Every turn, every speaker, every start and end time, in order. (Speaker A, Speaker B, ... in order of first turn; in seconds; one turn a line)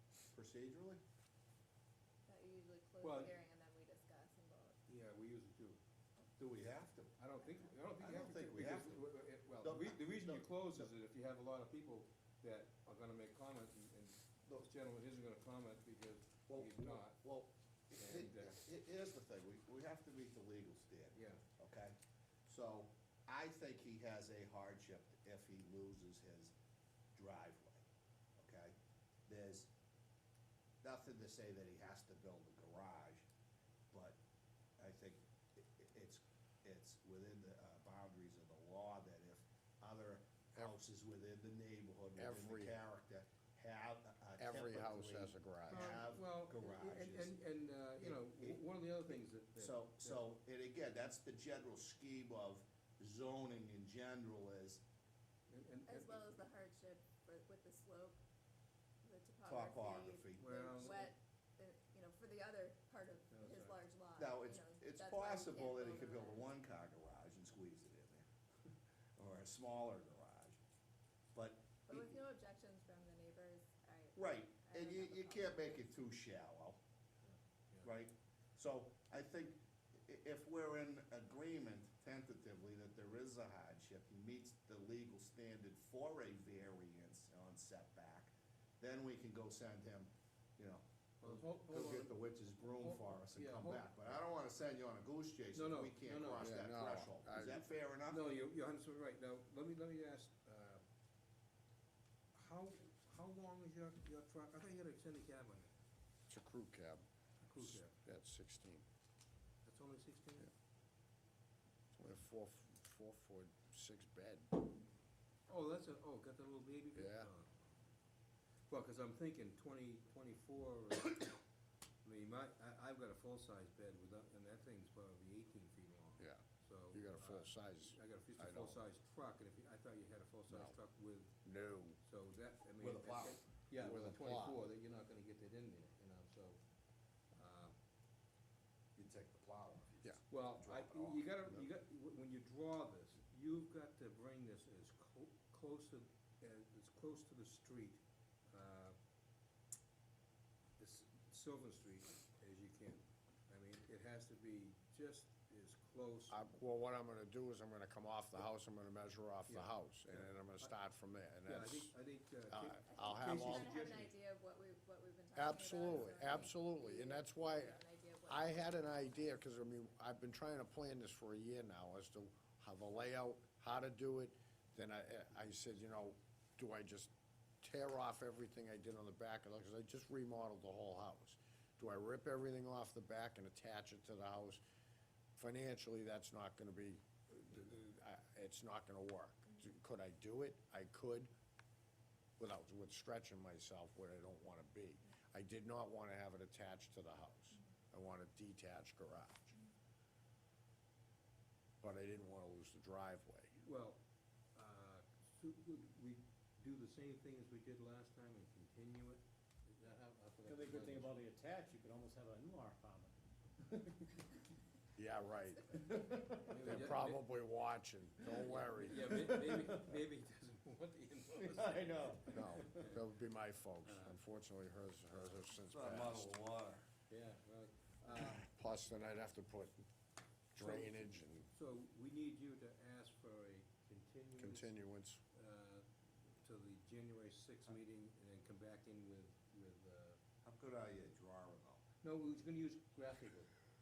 Speaker A: 0.3-1.0
Speaker B: 2.3-4.8
Speaker C: 3.0-3.3
Speaker C: 4.9-5.8
Speaker A: 6.4-7.2
Speaker C: 7.2-17.2
Speaker A: 8.0-9.1
Speaker A: 9.6-10.9
Speaker A: 16.5-26.5
Speaker C: 18.0-18.6
Speaker C: 21.1-21.4
Speaker A: 27.1-27.9
Speaker A: 28.4-28.8
Speaker A: 29.3-29.7
Speaker A: 30.8-33.2
Speaker A: 33.9-34.2
Speaker A: 34.8-47.4
Speaker D: 42.2-42.8
Speaker D: 44.4-46.0
Speaker C: 45.7-50.2
Speaker A: 48.0-48.6
Speaker A: 49.6-54.8
Speaker C: 55.5-56.4
Speaker B: 55.9-58.2
Speaker B: 59.0-66.5
Speaker A: 59.5-61.0
Speaker C: 60.4-61.1
Speaker C: 63.3-63.8
Speaker A: 64.2-68.3
Speaker A: 69.2-70.6
Speaker A: 71.3-72.2
Speaker B: 71.9-75.8
Speaker A: 74.2-76.8
Speaker C: 77.2-77.9
Speaker A: 77.8-98.3
Speaker C: 91.2-93.9
Speaker C: 95.5-96.5
Speaker D: 96.4-97.7
Speaker C: 98.1-100.8
Speaker C: 102.3-105.7
Speaker D: 106.3-108.8
Speaker C: 107.5-108.0
Speaker C: 109.6-110.5
Speaker D: 111.9-114.5
Speaker C: 115.5-117.5
Speaker D: 117.0-117.3
Speaker C: 118.7-121.4
Speaker C: 122.0-131.5
Speaker D: 126.2-128.8
Speaker D: 130.5-130.8
Speaker D: 131.4-132.0
Speaker C: 132.0-136.6
Speaker A: 132.8-133.4
Speaker D: 133.8-134.6
Speaker C: 137.3-137.7
Speaker A: 139.0-141.3
Speaker C: 140.3-149.0
Speaker C: 150.8-156.4
Speaker D: 156.3-161.9
Speaker C: 159.5-160.7
Speaker C: 161.4-164.1
Speaker D: 162.5-163.8
Speaker B: 162.9-169.1
Speaker D: 165.3-177.1
Speaker C: 165.9-166.3
Speaker D: 177.6-184.6
Speaker D: 185.3-191.3
Speaker D: 192.4-199.6
Speaker D: 201.8-203.6
Speaker C: 203.6-204.0
Speaker C: 204.6-211.2
Speaker E: 210.4-213.1
Speaker E: 213.7-214.1
Speaker D: 215.0-219.5
Speaker C: 216.4-217.3
Speaker C: 218.3-223.0
Speaker A: 221.5-222.6
Speaker D: 222.3-226.3
Speaker C: 223.9-224.2
Speaker A: 225.7-226.9
Speaker C: 227.1-228.4
Speaker D: 228.2-229.8
Speaker D: 230.5-231.5
Speaker C: 230.6-234.7
Speaker D: 234.4-235.2
Speaker C: 235.3-235.9
Speaker C: 236.4-240.2
Speaker A: 240.4-241.8
Speaker C: 242.0-243.5